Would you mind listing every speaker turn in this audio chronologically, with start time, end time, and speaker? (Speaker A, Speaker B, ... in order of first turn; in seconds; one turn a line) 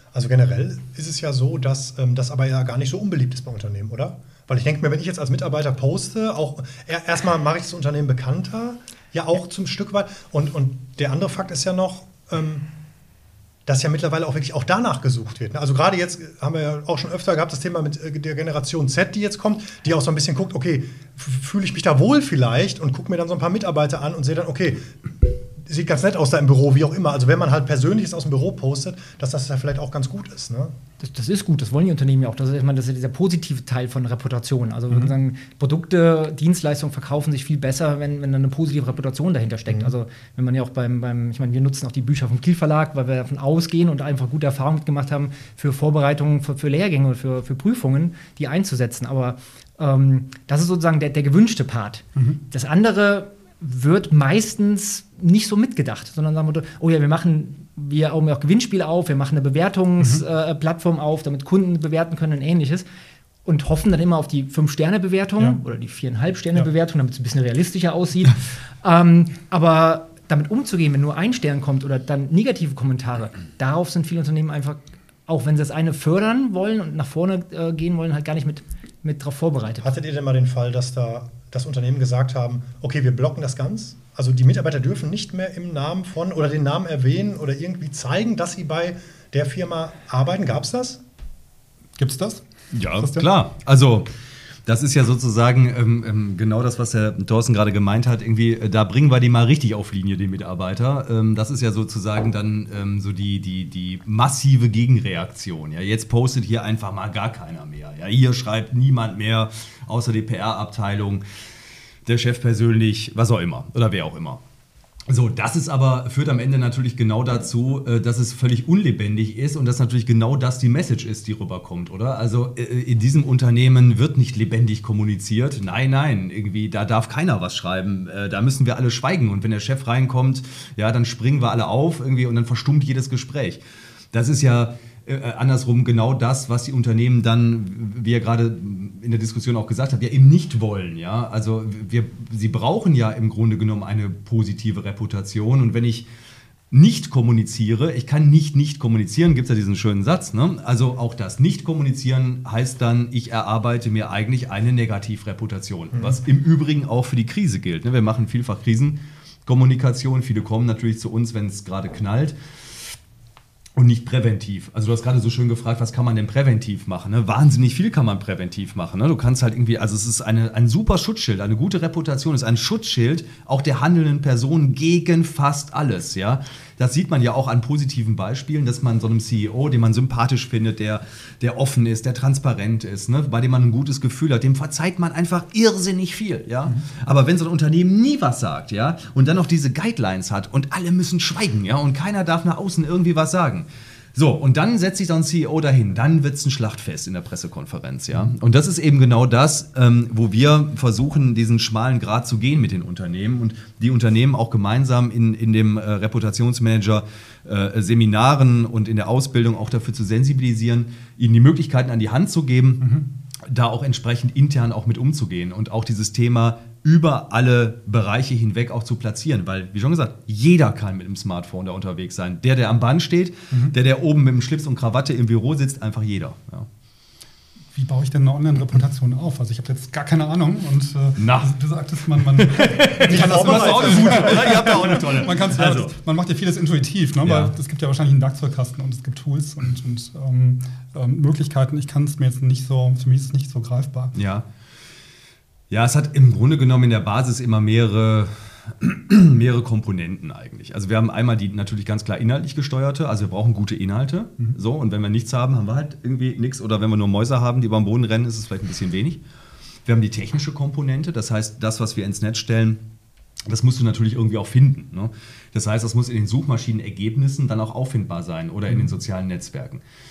Speaker A: 0.1-12.7
Speaker A: 13.7-30.7
Speaker B: 31.0-62.9
Speaker B: 63.5-80.0
Speaker A: 79.8-91.0
Speaker C: 92.0-93.3
Speaker D: 92.7-94.1
Speaker D: 94.7-111.2
Speaker D: 112.1-114.4
Speaker D: 115.1-133.6
Speaker D: 134.1-146.1
Speaker D: 146.7-162.4
Speaker D: 163.8-212.9
Speaker C: 212.8-213.1
Speaker D: 213.5-226.7
Speaker C: 227.7-244.2
Speaker D: 231.2-231.5
Speaker D: 232.4-235.9
Speaker A: 233.0-235.1
Speaker D: 237.2-237.5
Speaker D: 244.2-244.5
Speaker D: 245.7-259.2
Speaker D: 259.9-262.8
Speaker D: 263.5-269.8